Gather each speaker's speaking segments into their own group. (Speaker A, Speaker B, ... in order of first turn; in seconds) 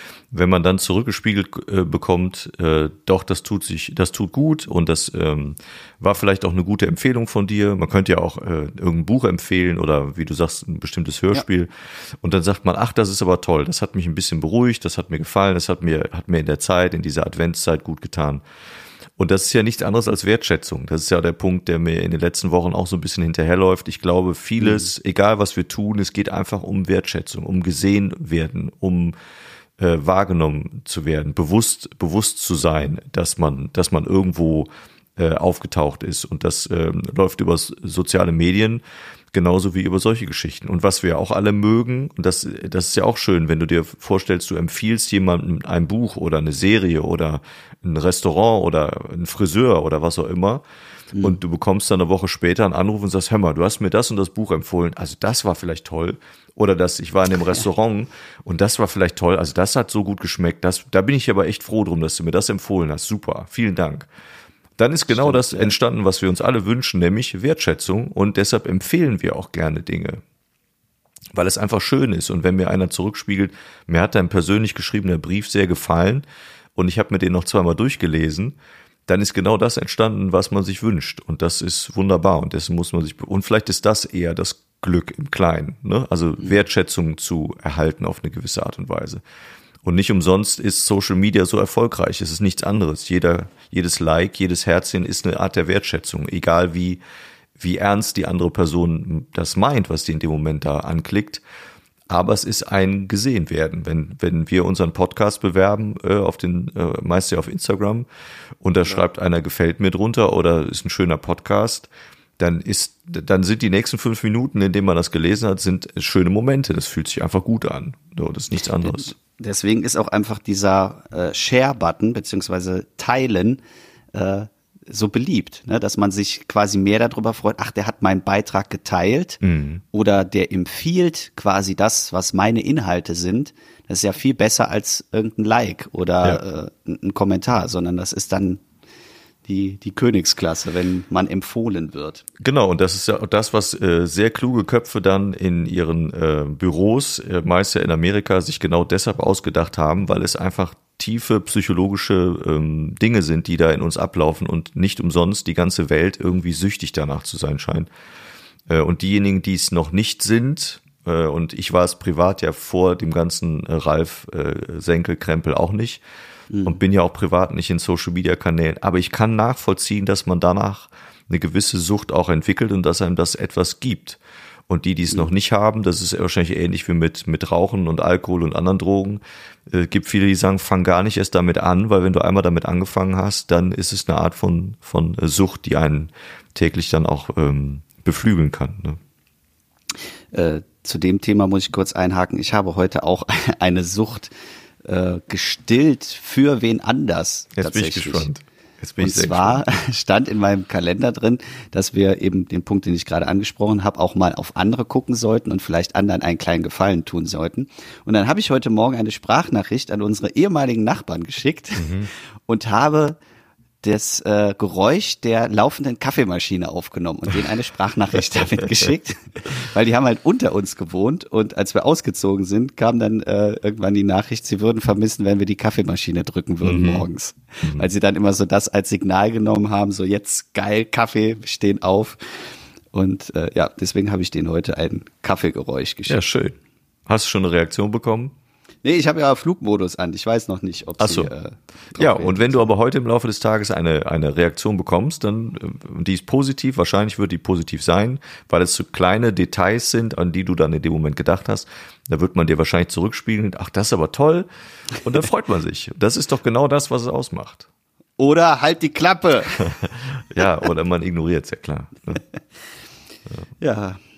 Speaker A: 0.3-11.7, 12.2-18.4, 19.2-29.1, 29.8-50.6, 51.2-64.1, 64.8-70.2, 71.3-76.2, 76.8-78.5, 79.1-89.2, 89.8-97.0, 97.6-101.4, 102.1-108.1, 108.6-119.1, 129.4-129.8, 142.4-157.9, 158.7-166.0, 166.6-189.0, 197.6-199.6, 211.8-212.1, 226.6-227.0, 236.1-236.6, 237.1-238.3, 241.0-241.3, 241.9-254.5, 255.0-257.7, 259.8-262.2
Speaker B: 24.6-24.9, 65.1-65.7, 118.8-123.6, 124.1-129.4, 129.9-138.6, 139.4-142.2, 166.5-166.8, 190.3-194.3, 194.8-198.3, 199.0-213.2, 213.8-232.4, 232.9-236.2, 238.8-242.7, 258.2-259.7, 263.6-264.0